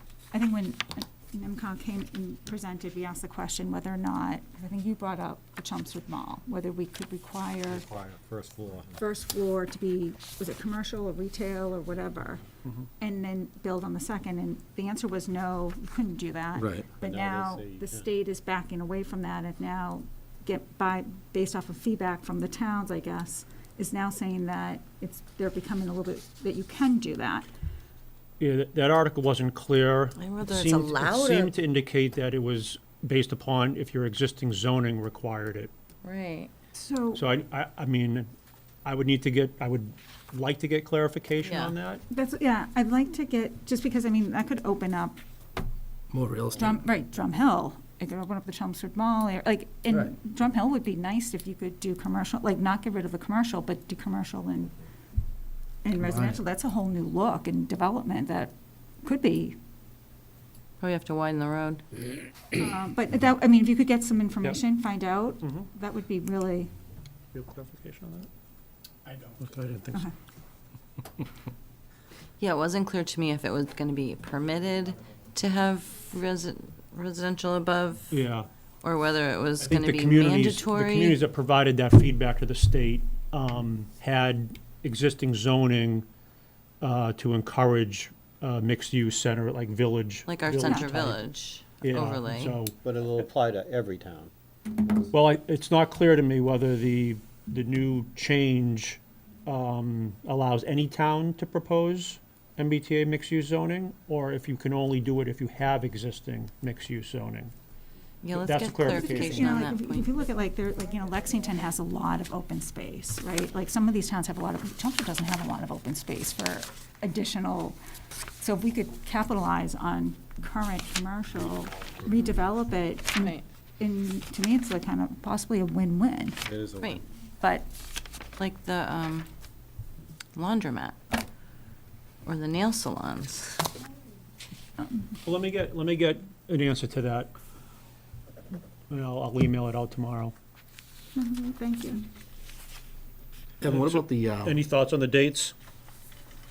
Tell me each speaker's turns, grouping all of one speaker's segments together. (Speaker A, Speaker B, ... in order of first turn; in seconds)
Speaker A: 0.3-7.9, 9.0-12.4, 13.0-27.5, 36.7-37.2, 42.1-45.2, 46.6-54.7, 55.8-59.6, 62.5-66.7, 90.6-90.9, 108.9-117.8, 118.4-126.4, 127.4-127.7, 141.1-142.0
Speaker B: 7.7-8.9, 17.0-18.1, 92.8-94.3, 126.4-127.0
Speaker C: 16.5-16.9, 46.1-46.8, 56.0-56.4, 143.6-144.6
Speaker D: 28.4-35.7, 37.1-38.3, 38.8-42.0, 65.4-65.7, 67.3-68.3, 69.4-70.0, 78.1-78.5, 79.6-86.0, 86.8-91.2, 91.8-92.7, 95.1-107.5, 108.3-109.7, 135.2-137.3, 138.9-140.3, 143.6-145.5
Speaker E: 30.1-31.5, 36.0-36.5, 41.4-41.7, 60.8-61.8, 72.4-78.2, 78.8-81.2, 90.3-92.6, 108.2-110.1, 128.4-129.3, 130.3-130.9, 132.2-133.7